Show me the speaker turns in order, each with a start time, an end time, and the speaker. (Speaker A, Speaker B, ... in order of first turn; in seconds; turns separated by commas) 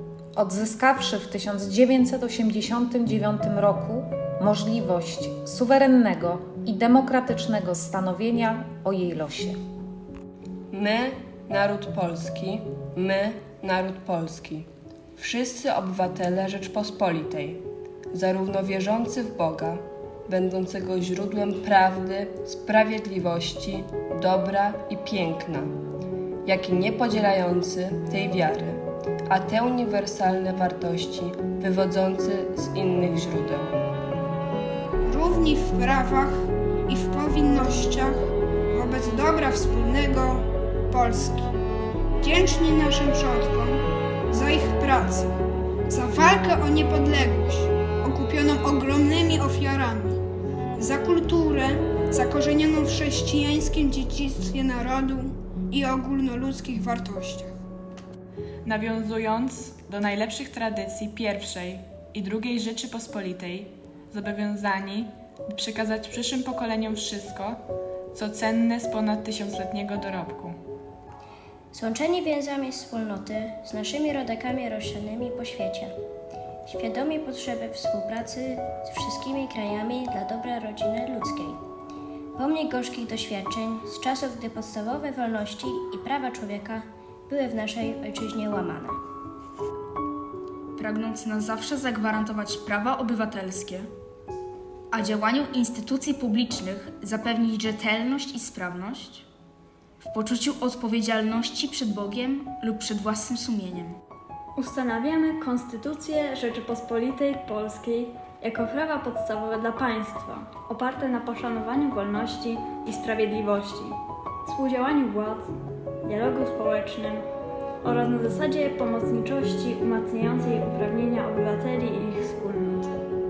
Speaker A: 0.4-9.6, Speaker B: 10.7-17.6, Speaker B: 18.1-25.7, Speaker B: 26.4-33.8, Speaker C: 35.2-36.3, Speaker C: 37.1-38.1, Speaker C: 38.8-40.3, Speaker C: 41.0-41.4, Speaker C: 42.3-43.7, Speaker C: 44.5-45.3, Speaker C: 46.0-47.7, Speaker C: 48.3-50.1, Speaker C: 50.9-55.3, Speaker C: 55.9-57.4, Speaker D: 58.6-67.6, Speaker D: 68.1-70.5, Speaker E: 71.7-75.9, Speaker E: 76.7-81.6, Speaker E: 82.4-89.0, Speaker F: 90.8-93.9, Speaker F: 94.9-99.2, Speaker F: 100.0-104.0, Speaker G: 104.6-115.5, Speaker G: 116.0-117.2, Speaker G: 117.8-122.9